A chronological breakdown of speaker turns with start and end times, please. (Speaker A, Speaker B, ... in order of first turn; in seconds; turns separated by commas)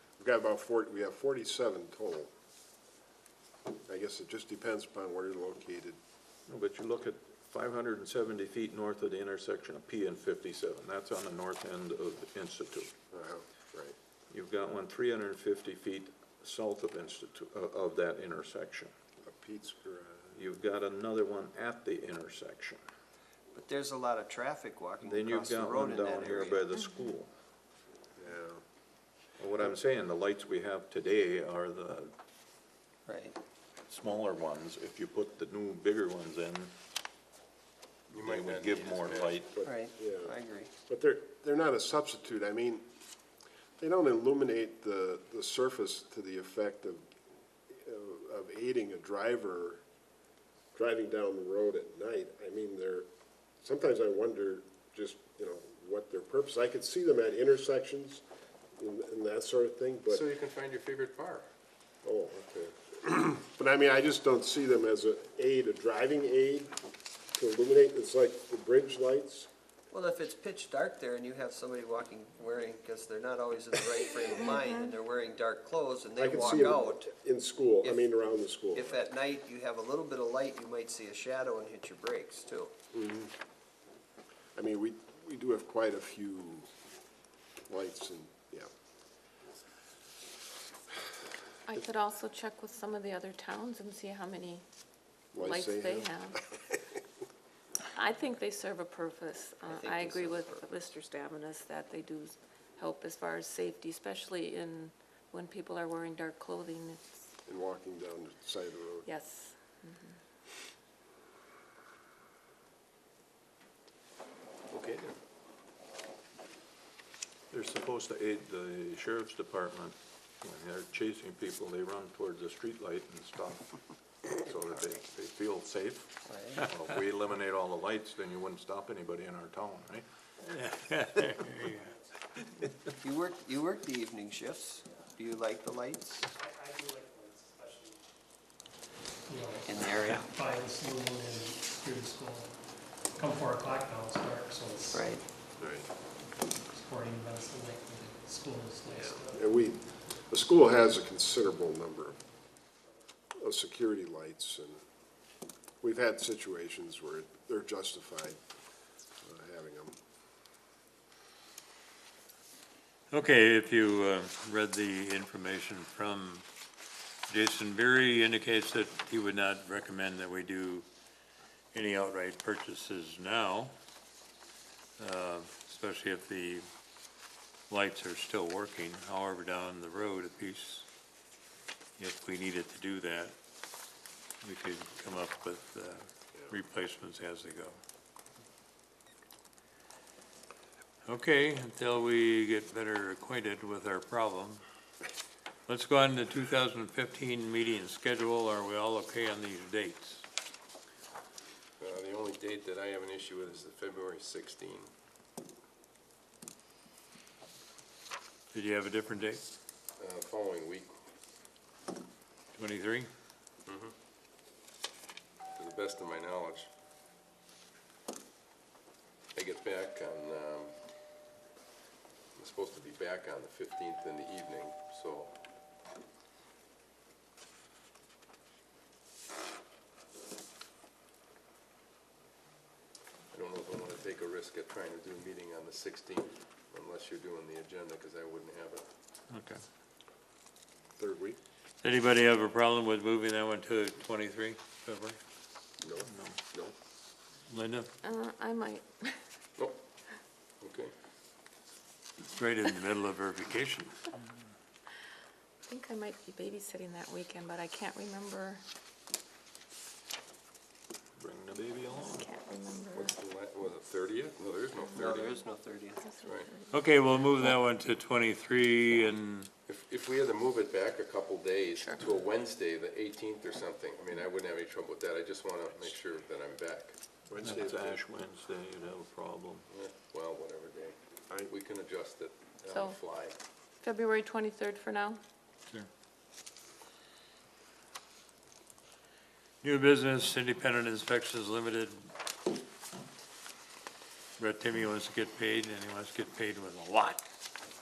Speaker A: 0.2-2.3, Speaker A: 3.9-6.0, Speaker B: 6.5-12.9, Speaker A: 13.1-14.0, Speaker B: 14.3-18.9, Speaker A: 19.2-20.4, Speaker B: 20.3-22.8, Speaker C: 23.5-26.6, Speaker B: 25.0-27.3, Speaker A: 28.2-28.6, Speaker B: 29.4-32.1, Speaker C: 33.1-33.4, Speaker B: 33.9-36.7, Speaker D: 38.1-39.3, Speaker B: 38.1-39.6, Speaker A: 39.5-42.9, Speaker C: 39.6-40.7, Speaker A: 43.8-47.1, Speaker A: 47.7-49.8, Speaker A: 50.7-53.1, Speaker A: 53.6-58.2, Speaker A: 58.8-60.2, Speaker D: 60.1-61.5, Speaker A: 62.0-66.7, Speaker A: 67.3-69.5, Speaker C: 69.9-77.1, Speaker A: 76.2-79.0, Speaker C: 77.8-78.1, Speaker C: 78.7-82.7, Speaker A: 82.9-83.3, Speaker A: 84.6-86.7, Speaker A: 87.7-88.7, Speaker E: 91.7-94.7, Speaker A: 95.3-96.4, Speaker E: 95.4-96.4, Speaker E: 97.9-107.2, Speaker C: 99.7-100.7, Speaker A: 107.5-109.1, Speaker E: 109.1-110.2, Speaker D: 114.7-115.1, Speaker B: 117.5-130.1, Speaker C: 124.5-124.9, Speaker C: 126.3-126.7, Speaker F: 130.5-131.9, Speaker C: 133.0-136.3, Speaker G: 136.2-138.0, Speaker G: 139.3-142.5, Speaker C: 139.7-140.3, Speaker G: 143.2-145.2, Speaker C: 144.9-145.2, Speaker G: 146.7-149.5, Speaker A: 149.3-152.2, Speaker A: 153.4-154.8, Speaker A: 155.8-158.4, Speaker A: 159.2-160.0, Speaker F: 163.1-166.4, Speaker F: 167.3-170.9, Speaker F: 171.7-173.7, Speaker F: 175.0-176.6, Speaker F: 177.7-180.9, Speaker F: 182.0-183.3, Speaker F: 184.4-187.8, Speaker F: 191.1-194.6, Speaker F: 195.7-200.2, Speaker D: 201.8-204.9, Speaker F: 208.5-209.4, Speaker D: 210.0-210.9, Speaker F: 212.5-213.1, Speaker D: 213.7-213.9, Speaker D: 215.6-216.7, Speaker D: 219.3-220.8, Speaker D: 222.4-225.3, Speaker D: 233.3-238.8, Speaker B: 239.3-239.6, Speaker A: 241.0-241.4, Speaker F: 241.8-245.2, Speaker A: 245.8-246.7, Speaker B: 246.0-246.7, Speaker F: 247.5-247.9, Speaker E: 248.0-249.2, Speaker D: 250.6-250.9, Speaker F: 252.4-253.9, Speaker E: 255.7-258.6, Speaker B: 261.2-262.3, Speaker E: 261.9-263.1, Speaker D: 262.9-265.3, Speaker C: 264.9-266.2, Speaker E: 266.1-266.8, Speaker F: 266.7-269.5, Speaker D: 269.7-277.0, Speaker A: 277.3-278.0, Speaker B: 277.4-279.6, Speaker D: 279.7-283.4, Speaker E: 282.7-283.0, Speaker E: 283.8-285.2, Speaker F: 289.6-292.0, Speaker F: 294.4-297.2